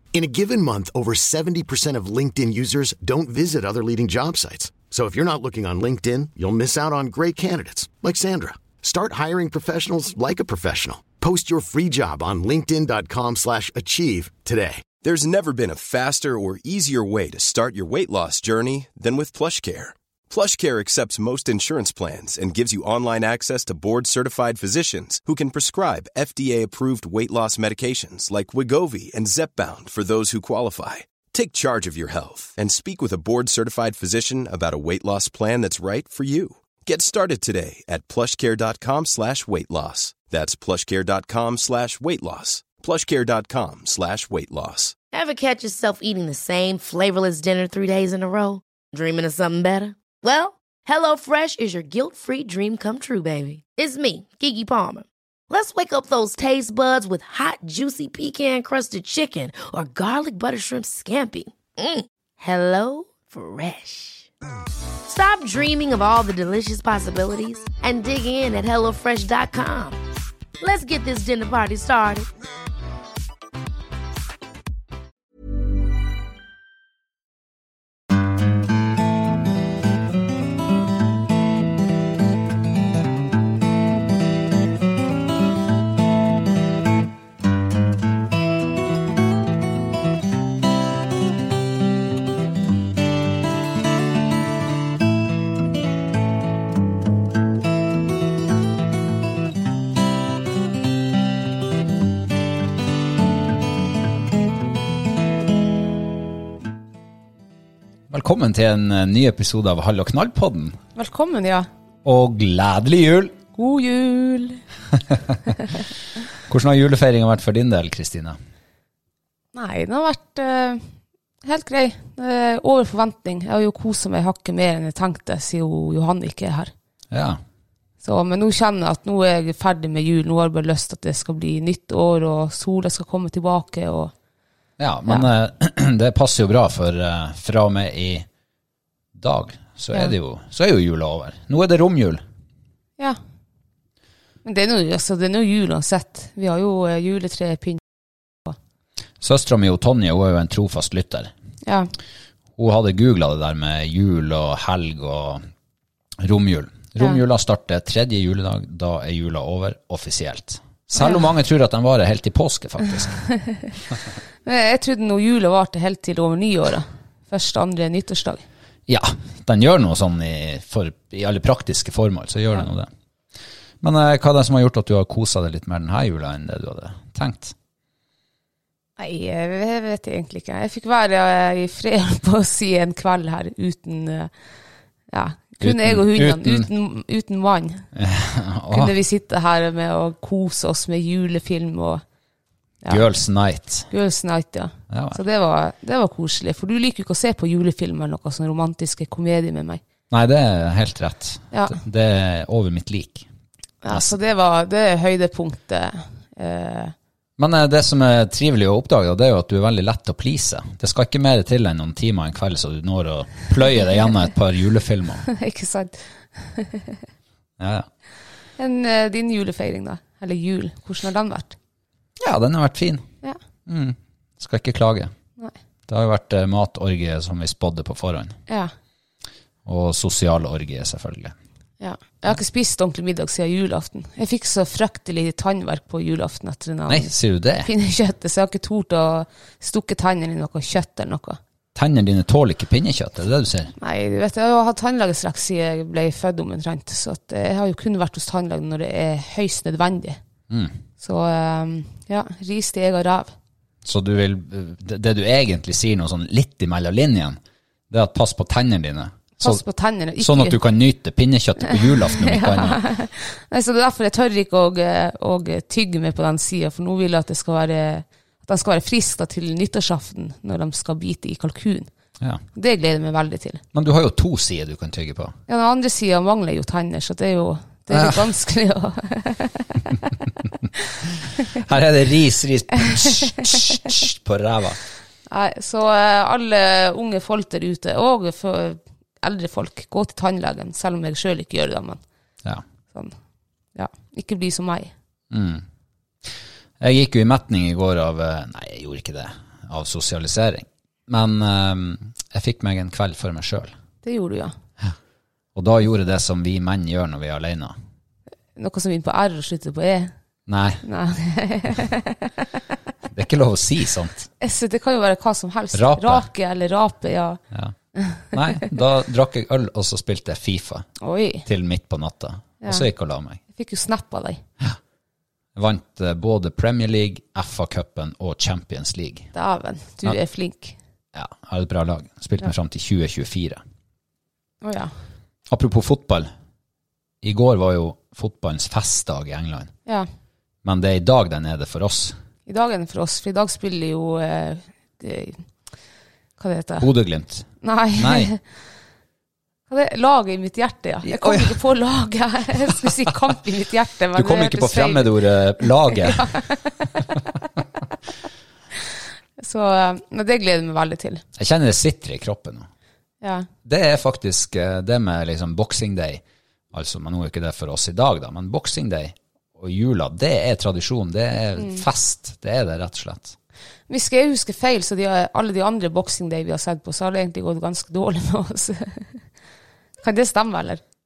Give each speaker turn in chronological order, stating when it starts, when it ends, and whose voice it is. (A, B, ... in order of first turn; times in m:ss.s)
0:00.1-0:14.8 A
0:15.0-0:44.9 B
0:45.1-1:04.3 C
1:05.1-1:10.0 C
1:10.6-1:12.3 C
1:48.1-1:50.8 D
1:51.0-1:51.7 E
1:52.0-1:53.4 D
1:53.5-1:54.6 E
1:56.5-1:58.4 D
1:59.5-2:00.9 E
2:01.4-2:06.7 E
2:07.1-2:07.4 D
2:08.0-2:14.1 E
2:14.8-2:18.3 D
2:19.1-2:22.2 D
2:24.4-2:27.8 E
2:29.2-2:31.3 D
2:31.6-2:31.9 E
2:32.6-2:35.4 D
2:36.2-2:43.2 D
2:40.9-2:41.2 E
2:44.4-2:48.4 E
2:48.9-2:52.9 D
2:53.8-2:57.5 D
2:59.0-3:04.3 E
3:05.1-3:07.9 E
3:05.6-3:06.7 D
3:07.9-3:09.0 D
3:08.7-3:12.0 E
3:12.9-3:13.9 D
3:13.9-3:19.8 E
3:14.9-3:15.2 D
3:20.1-3:23.3 D
3:21.5-3:21.8 E
3:23.8-3:26.9 E
3:23.9-3:24.1 D
3:27.4-3:35.2 D
3:35.2-3:37.0 E
3:37.6-3:37.9 D
3:38.6-3:41.6 E
3:42.2-3:43.1 D
3:43.6-3:45.1 D
3:45.9-3:48.4 D
3:49.6-3:51.3 D
3:51.8-4:01.4 E
3:56.9-3:57.7 D
4:01.7-4:03.7 D
4:03.8-4:10.2 E
4:10.5-4:10.8 D
4:11.0-4:13.3 E
4:13.8-4:17.4 D
4:17.9-4:19.6 D
4:19.4-4:20.6 E
4:20.2-4:22.8 D
4:21.7-4:31.9 E
4:32.5-4:33.6 E
4:33.7-4:35.3 D
4:35.5-4:40.0 E
4:37.9-4:38.2 D
4:41.5-4:44.8 D
4:45.3-4:52.0 E
4:53.8-4:54.9 E
4:55.3-4:55.6 D
4:56.8-5:03.7 D
5:04.0-5:04.5 E
5:05.5-5:07.7 D
5:08.6-5:10.1 E
5:10.5-5:10.8 D
5:10.8-5:12.5 E
5:13.1-5:14.3 D
5:14.4-5:17.4 E
5:15.7-5:16.2 D
5:17.9-5:18.3 E
5:18.3-5:20.9 D
5:21.0-5:21.4 E
5:21.4-5:23.4 D
5:22.6-5:22.9 E
5:23.5-5:24.4 E
5:25.5-5:29.3 D
5:29.3-5:30.8 E
5:31.1-5:33.6 D
5:34.6-5:34.9 E
5:35.5-5:36.3 D
5:37.2-5:39.7 D
5:40.6-5:42.2 D
5:42.5-5:45.4 E
5:46.4-5:46.9 E
5:46.8-5:48.3 D
5:47.6-5:48.4 E
5:49.7-5:56.9 E
5:51.0-5:51.6 D
5:54.1-5:56.4 D
5:59.4-6:01.2 E
6:01.4-6:02.7 D
6:03.2-6:03.5 E
6:03.6-6:06.2 D
6:06.7-6:13.4 D
6:11.6-6:11.8 E
6:13.9-6:19.2 E
6:20.0-6:20.8 E